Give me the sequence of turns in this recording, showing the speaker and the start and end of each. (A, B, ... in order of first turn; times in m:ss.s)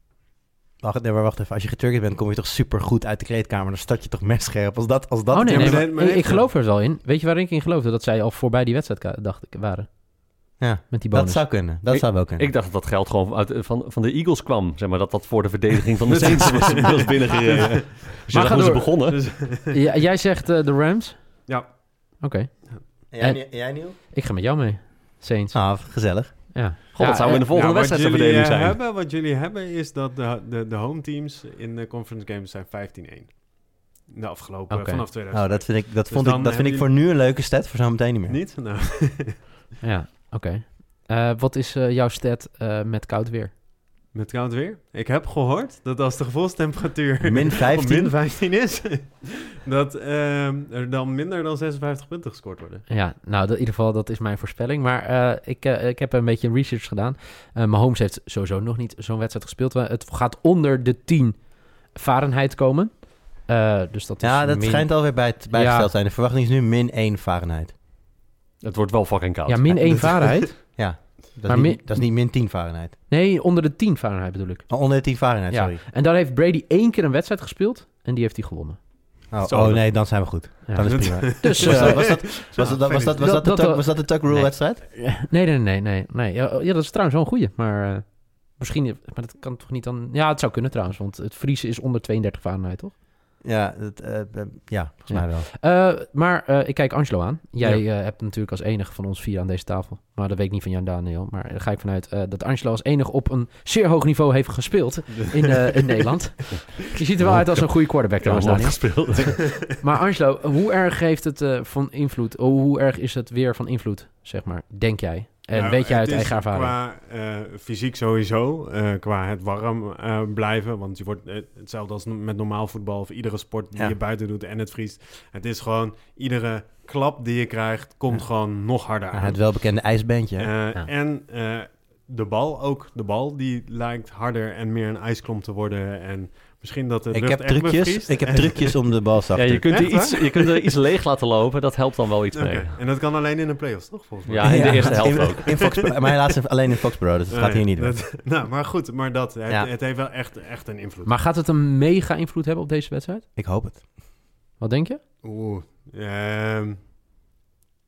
0:00.8-0:05.9 A
0:05.3-0:11.5 B
0:05.5-0:06.5 C
0:10.6-0:12.5 A
0:11.9-0:19.3 D
0:16.1-0:18.0 C
0:18.3-0:27.5 B
0:19.1-0:19.7 C
0:21.5-0:22.8 C
0:23.1-0:24.0 A
0:25.5-0:26.6 A
0:27.0-0:28.8 D
0:27.5-0:36.9 C
0:34.7-0:35.1 B
0:35.3-0:38.4 A
0:38.3-0:39.5 C
0:39.8-0:43.5 B
0:44.1-0:52.8 C
0:47.2-0:48.2 A
0:52.9-1:05.9 B
1:04.2-1:07.7 A
1:08.6-1:10.0 D
1:09.5-1:12.5 B
1:10.7-1:13.0 A
1:13.1-1:19.3 B
1:14.7-1:15.8 A
1:19.3-1:24.8 A
1:19.5-1:23.3 C
1:20.7-1:33.0 B
1:33.4-1:35.5 A
1:35.1-1:56.8 B
1:47.2-1:49.4 D
1:48.4-1:48.8 A
1:55.5-2:19.0 C
2:08.1-2:10.7 A
2:17.1-2:20.0 A
2:19.3-2:22.8 D
2:19.7-2:20.6 C
2:22.4-2:25.9 C
2:24.3-2:25.6 D
2:24.4-2:28.0 A
2:27.3-2:31.2 C
2:31.1-2:33.2 B
2:33.4-2:33.8 A
2:34.6-2:35.0 B
2:35.2-2:36.8 C